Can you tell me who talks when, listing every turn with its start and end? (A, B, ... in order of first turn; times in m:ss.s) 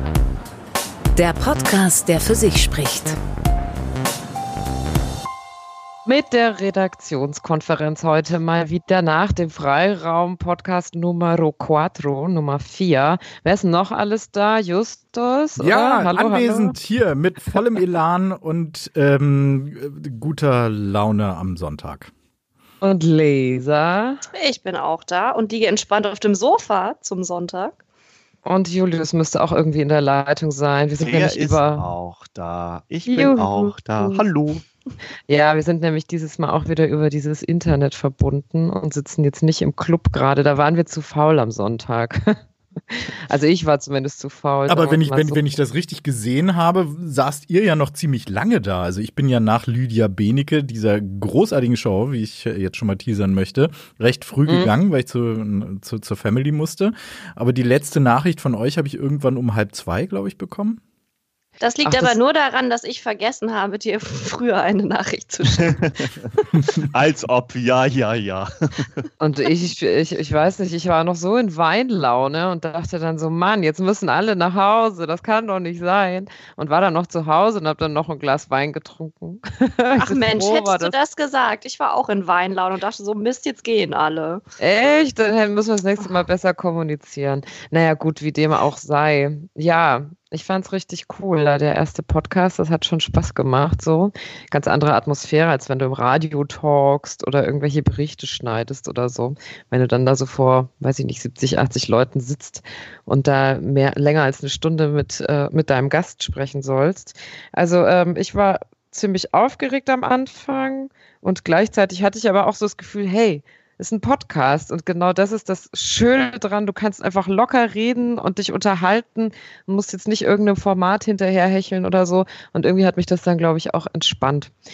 0:01.2-0:03.2 A
0:06.1-0:16.8 B
0:15.6-0:22.1 C
0:22.8-0:24.2 B
0:24.3-0:27.8 D
0:28.4-0:31.9 B
0:31.0-0:34.6 E
0:33.1-0:33.4 B
0:33.2-0:34.2 D
0:35.3-0:42.4 B
0:42.9-0:45.5 B
0:44.7-1:00.8 C
0:54.5-0:54.7 B
1:01.6-1:06.4 D
1:01.8-1:02.2 B
1:05.6-1:06.3 E
1:06.9-1:09.0 E
1:09.2-1:21.0 B
1:20.0-1:24.4 D
1:24.6-2:04.5 B